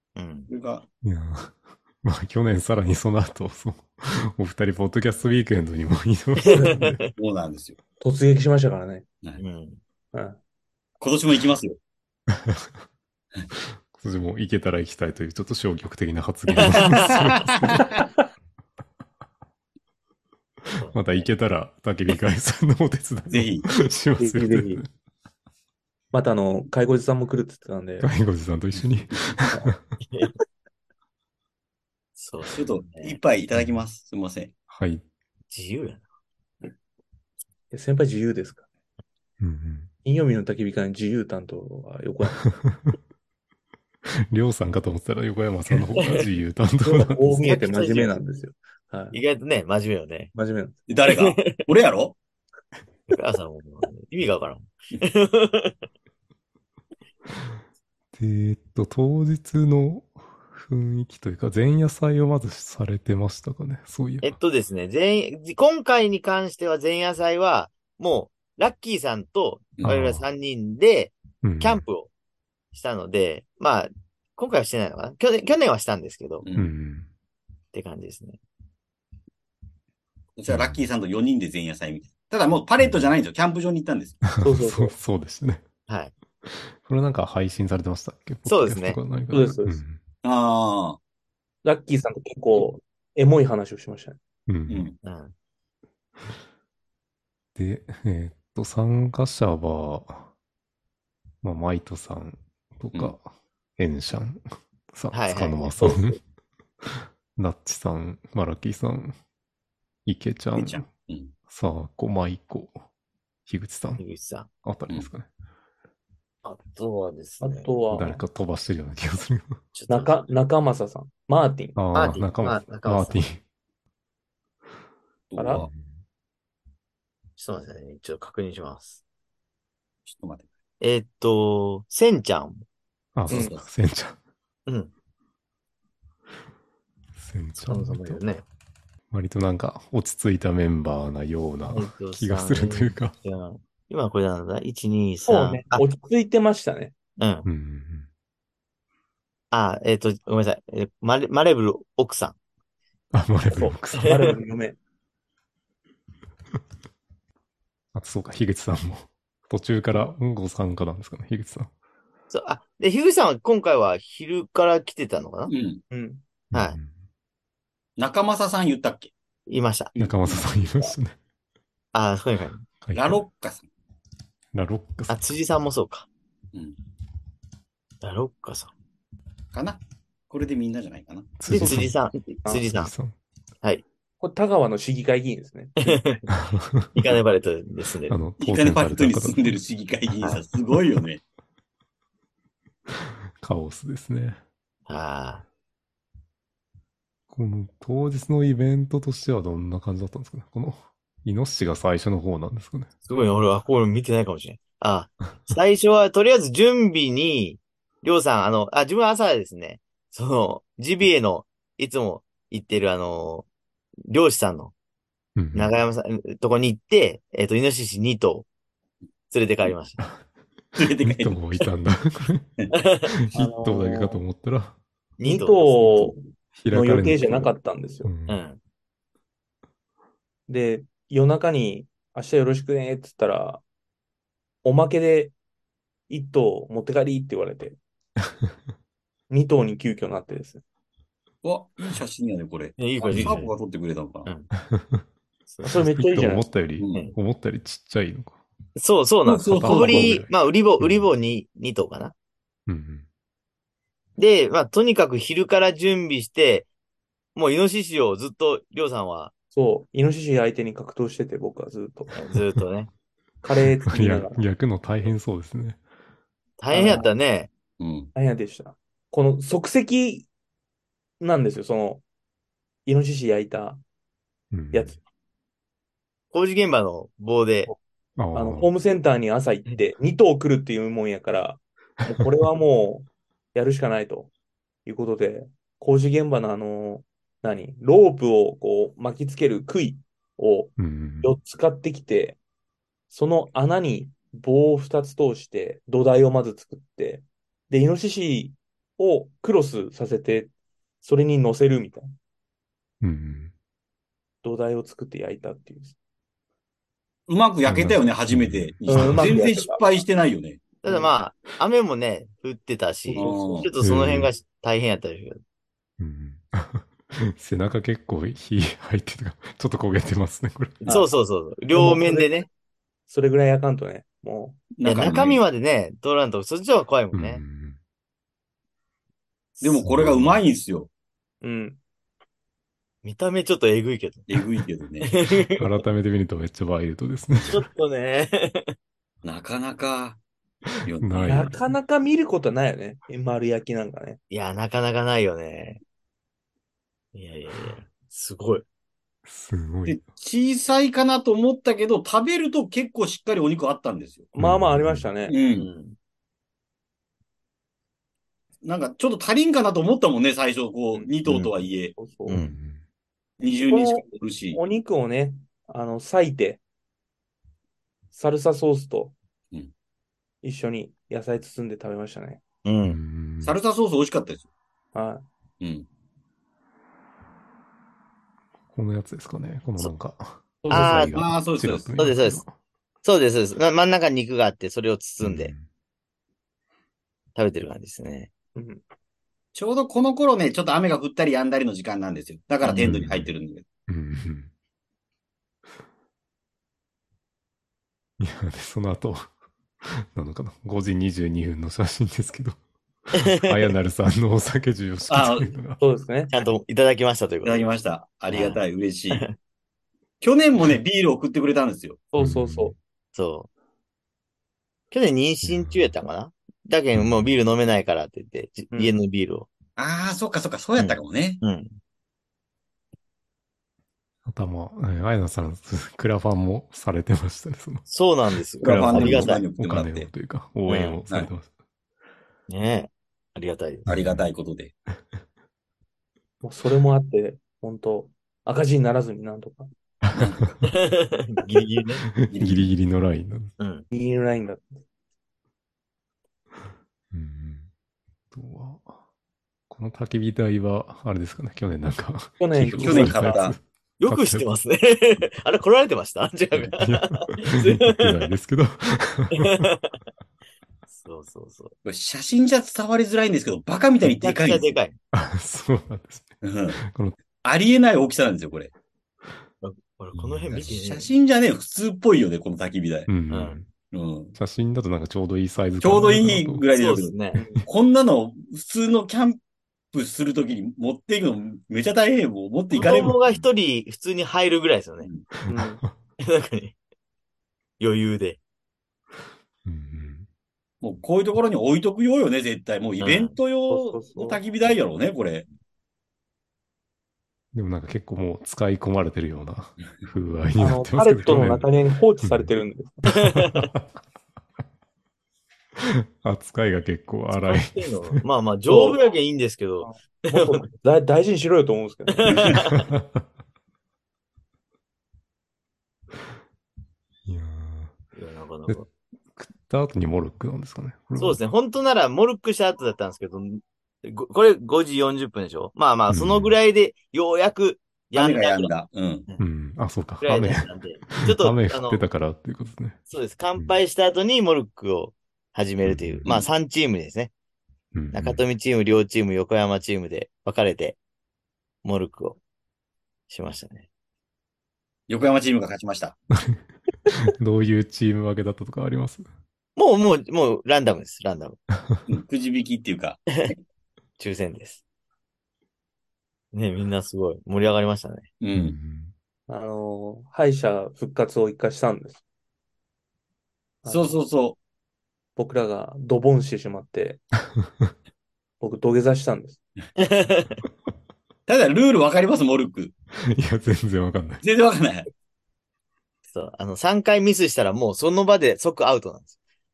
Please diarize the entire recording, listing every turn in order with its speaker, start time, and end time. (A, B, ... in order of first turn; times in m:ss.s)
0:00.2-0:00.5 A
0:00.5-0:00.8 B
0:01.0-0:07.0 C
0:06.4-0:06.8 D
0:06.4-0:07.1 A
0:07.2-0:07.8 B
0:08.0-0:09.0 D
0:09.4-0:09.8 A
0:10.1-0:10.4 D
0:11.0-0:11.8 B
0:13.9-0:17.9 C
0:17.5-0:17.8 B
0:17.8-0:18.1 D
0:20.7-0:24.9 C
0:20.8-0:21.2 A
0:23.3-0:23.7 B
0:24.2-0:24.8 D
0:26.1-0:28.1 D
0:28.0-0:30.0 C
0:28.7-0:29.2 B
0:32.2-0:33.2 A
0:32.5-0:34.5 B
0:34.7-0:35.0 C
0:35.5-0:36.0 A
0:37.7-0:38.6 D
0:39.4-0:39.9 C
0:40.0-0:42.5 D
0:44.3-0:47.2 C
0:46.8-0:49.2 D
0:47.3-0:48.1 A
0:49.1-0:50.3 A
0:50.3-0:50.8 D
0:50.9-0:52.2 B
0:51.0-0:51.6 A
0:53.1-0:55.8 A
0:58.1-1:04.4 C
1:04.2-1:12.1 A
1:09.8-1:10.2 B
1:11.4-1:11.8 C
1:12.7-1:16.5 A
1:16.4-1:16.7 B
1:16.6-1:17.1 C
1:17.7-1:18.4 A
1:20.4-1:24.2 B
1:20.5-1:20.8 C
1:22.8-1:23.1 C
1:24.2-1:25.7 C
1:24.4-1:24.9 D
1:25.9-1:26.1 A
1:26.4-1:30.0 C
1:28.4-1:29.0 A
1:29.3-1:29.8 D
1:30.2-1:31.0 B
1:31.6-1:34.2 D
1:34.5-1:34.9 C
1:34.7-1:34.9 B
1:35.0-1:35.3 A
1:37.5-1:40.3 C
1:41.4-1:46.2 C
1:45.1-1:45.7 A
1:45.8-1:46.2 D
1:46.8-1:49.2 C
1:50.0-1:50.9 C
1:50.5-1:51.3 B
1:51.5-1:52.8 C
1:53.4-1:54.0 C
1:54.0-1:54.5 A
1:54.6-1:55.3 C
1:56.4-1:57.7 A
1:57.4-1:58.2 D
1:57.9-1:59.6 C
1:59.7-2:00.2 A
1:59.9-2:01.8 D
2:01.8-2:03.4 C
2:01.9-2:03.2 A
2:05.3-2:05.7 B
2:05.4-2:05.6 D
2:05.6-2:05.8 C
2:07.4-2:09.0 A
2:10.0-2:10.5 B
2:10.8-2:12.6 A
2:13.1-2:14.2 C
2:13.3-2:13.6 B
2:13.3-2:13.6 D
2:14.6-2:14.9 A
2:17.2-2:18.2 C
2:17.7-2:18.4 A
2:19.1-2:23.1 C
2:21.7-2:25.8 A
2:25.2-2:26.9 D
2:27.2-2:27.5 A
2:27.4-2:28.1 C
2:29.5-2:32.4 A
2:33.1-2:34.2 C
2:33.5-2:34.8 D
2:37.9-2:41.7 C
2:42.3-2:45.5 A
2:45.5-2:45.8 B
2:45.9-2:46.2 D
2:46.5-2:46.9 C
2:48.0-2:49.1 B
2:49.5-2:50.0 A
2:50.0-2:51.2 C
2:51.9-2:52.6 A
2:52.8-2:53.2 C
2:52.9-2:53.6 B
2:54.5-2:55.2 C
2:55.1-2:56.1 A
2:58.0-2:58.7 A
2:59.5-3:01.3 B
3:01.4-3:01.9 C
3:01.5-3:02.9 A
3:01.6-3:01.9 D
3:02.7-3:03.1 C
3:04.2-3:06.0 D
3:05.8-3:06.3 A
3:06.3-3:07.2 C
3:06.9-3:08.2 A
3:08.1-3:09.6 C
3:08.4-3:11.2 B
3:12.9-3:14.4 C
3:14.9-3:15.4 A
3:17.3-3:22.9 C
3:23.1-3:33.4 A
3:34.1-3:34.7 A
3:35.4-3:35.7 C
3:35.5-3:38.5 A
3:39.3-3:40.0 A
3:40.8-3:42.5 C
3:40.8-3:41.4 B
3:42.7-3:43.1 A
3:43.1-3:44.8 C
3:43.3-3:44.2 D
3:45.2-3:46.1 A
3:45.2-3:48.1 D
3:46.5-3:48.4 C
3:48.3-3:48.6 A
3:50.5-3:53.6 D
3:54.6-3:55.3 D
3:56.1-3:57.8 D
3:59.3-4:00.6 D
4:01.4-4:04.3 B
4:02.8-4:03.5 A
4:03.1-4:03.4 C
4:04.6-4:05.0 C
4:05.5-4:05.9 A
4:05.6-4:08.4 C
4:05.7-4:06.5 D
4:08.8-4:12.1 A
4:09.2-4:10.2 B
4:09.4-4:11.1 C
4:12.7-4:13.0 C
4:14.2-4:16.7 A
4:17.3-4:19.3 A
4:19.5-4:22.1 D
4:22.1-4:22.9 A
4:23.4-4:24.4 D
4:23.8-4:25.8 C
4:26.6-4:27.5 A
4:26.7-4:27.1 D
4:27.8-4:28.1 B
4:28.1-4:30.3 D
4:31.2-4:32.0 D
4:32.8-4:33.8 D
4:34.5-4:35.0 C
4:34.7-4:35.0 D
4:36.3-4:37.7 A
4:38.2-4:38.7 C
4:38.3-4:44.3 D
4:44.8-4:52.4 D
4:50.8-4:51.3 C
4:53.1-5:00.5 D
5:01.0-5:02.1 D
5:03.0-5:03.5 C
5:04.4-5:05.9 D
5:07.3-5:10.6 B
5:07.6-5:09.3 C
5:08.9-5:09.8 D
5:10.8-5:15.4 A
5:10.8-5:11.1 D
5:13.0-5:13.7 D
5:13.1-5:13.7 B
5:13.8-5:14.3 C
5:16.0-5:20.9 C
5:20.8-5:22.5 A
5:20.8-5:21.1 D
5:21.7-5:22.3 D
5:23.1-5:24.6 D
5:24.8-5:25.4 B
5:24.8-5:27.4 A
5:27.1-5:27.8 C
5:29.6-5:30.9 B
5:29.8-5:30.4 C
5:31.4-5:31.8 D
5:33.0-5:34.4 A
5:34.3-5:35.1 B
5:35.0-5:35.8 A
5:35.6-5:37.6 C
5:37.5-5:38.7 A
5:39.2-5:40.2 B
5:40.8-5:41.5 B
5:41.0-5:41.6 C
5:41.2-5:44.2 D
5:44.3-5:45.8 A
5:47.1-5:48.6 A
5:49.2-5:50.0 C
5:49.9-5:54.3 B
5:54.3-5:55.4 D
5:54.4-5:55.1 C
5:55.3-5:55.7 B
5:55.5-5:56.0 A
5:58.6-6:01.9 B
6:01.2-6:01.5 A
6:01.9-6:02.4 D
6:02.2-6:02.5 A
6:02.3-6:02.8 C
6:03.4-6:04.6 B
6:03.6-6:06.6 D
6:08.1-6:09.1 D
6:10.4-6:12.4 D
6:12.6-6:13.0 A
6:12.8-6:13.6 C
6:13.4-6:14.4 B
6:14.9-6:15.2 D
6:15.6-6:15.8 B
6:18.7-6:22.5 C
6:20.6-6:21.1 D
6:20.7-6:21.1 A
6:21.1-6:21.9 B
6:22.0-6:22.4 A
6:23.0-6:25.5 A
6:25.2-6:25.6 C
6:27.4-6:28.3 A
6:28.6-6:28.8 D
6:29.5-6:33.6 B
6:32.6-6:33.0 A
6:32.8-6:33.3 C
6:33.9-6:34.5 C
6:38.2-6:39.3 C
6:39.8-6:42.6 C
6:43.1-6:45.8 C
6:43.1-6:43.5 A
6:45.1-6:45.5 B
6:45.8-6:46.3 D
6:46.3-6:47.6 A
6:47.4-6:49.2 B
6:48.3-6:49.3 A
6:50.2-6:52.0 B
6:52.1-6:52.7 D
6:52.2-6:52.7 C
6:53.1-6:53.5 A
6:54.9-6:59.5 A
6:55.4-6:55.9 C
6:56.9-6:57.3 C
6:58.7-6:59.0 D
6:59.8-7:01.4 B
7:00.8-7:01.7 A
7:04.2-7:07.9 C
7:07.9-7:09.4 A
7:08.6-7:10.1 B
7:08.6-7:11.5 C
7:10.7-7:11.0 A
7:12.5-7:13.9 A
7:13.9-7:14.7 B
7:13.9-7:14.2 C
7:16.4-7:19.7 D
7:20.0-7:20.3 C
7:20.1-7:20.6 B
7:20.8-7:22.1 A
7:22.1-7:23.5 C
7:22.3-7:22.7 B
7:23.6-7:23.8 A
7:23.9-7:24.8 D
7:27.1-7:27.7 C
7:28.3-7:29.0 C
7:29.7-7:34.5 C
7:32.4-7:33.4 D
7:32.6-7:33.6 B
7:34.0-7:38.2 A
7:36.6-7:39.7 C
7:39.3-7:40.0 A
7:40.9-7:41.7 A
7:41.8-7:44.7 B
7:44.0-7:45.0 A
7:45.1-7:47.2 C
7:46.4-7:46.8 B
7:47.4-7:48.7 B
7:49.6-7:51.1 A
7:50.1-7:50.5 C
7:50.5-7:53.1 B
7:53.1-7:53.7 C
7:53.3-7:53.6 A
7:53.9-7:54.3 B
7:54.3-7:56.6 C
7:55.8-7:57.1 B
7:56.7-7:57.4 A
7:57.3-7:57.6 C
7:57.4-7:57.6 D
7:57.6-7:59.4 B
7:59.9-8:03.2 B
8:02.7-8:05.1 A
8:03.0-8:03.4 C
8:05.4-8:05.9 C
8:05.5-8:05.8 D
8:06.2-8:06.7 A
8:07.8-8:08.4 A
8:09.6-8:10.2 C
8:10.8-8:15.4 B
8:13.0-8:13.3 A
8:13.7-8:14.4 D
8:17.5-8:21.7 C
8:20.6-8:23.3 D
8:22.2-8:22.5 C
8:23.2-8:23.8 C
8:23.2-8:23.7 A
8:25.8-8:28.2 C
8:27.3-8:30.6 A
8:28.7-8:29.0 D
8:29.8-8:32.6 D
8:32.1-8:32.8 A
8:32.3-8:32.5 B
8:32.9-8:33.2 C
8:37.2-8:38.0 C
8:38.2-8:38.9 A
8:38.7-8:41.4 C
8:41.2-8:48.7 A
8:46.1-8:46.6 C
8:48.1-8:49.3 B
8:49.4-8:53.0 C
8:50.2-8:52.0 A
8:53.1-8:57.3 A
8:55.8-8:56.3 C
8:57.9-8:58.4 C
8:58.1-9:01.0 A
9:01.8-9:02.4 A
9:03.3-9:03.9 A
9:05.1-9:06.2 B
9:06.3-9:06.6 C
9:07.2-9:09.3 C
9:09.8-9:11.6 A
9:12.1-9:13.5 B
9:14.2-9:14.8 A
9:16.5-9:18.3 A
9:18.4-9:18.8 B
9:18.5-9:19.1 C
9:19.5-9:22.2 D
9:23.8-9:24.2 D
9:23.8-9:24.6 B
9:25.4-9:27.2 D
9:28.6-9:29.6 D
9:30.0-9:30.6 A
9:31.5-9:32.9 B
9:33.2-9:34.4 C
9:34.4-9:35.1 B
9:36.3-9:39.3 A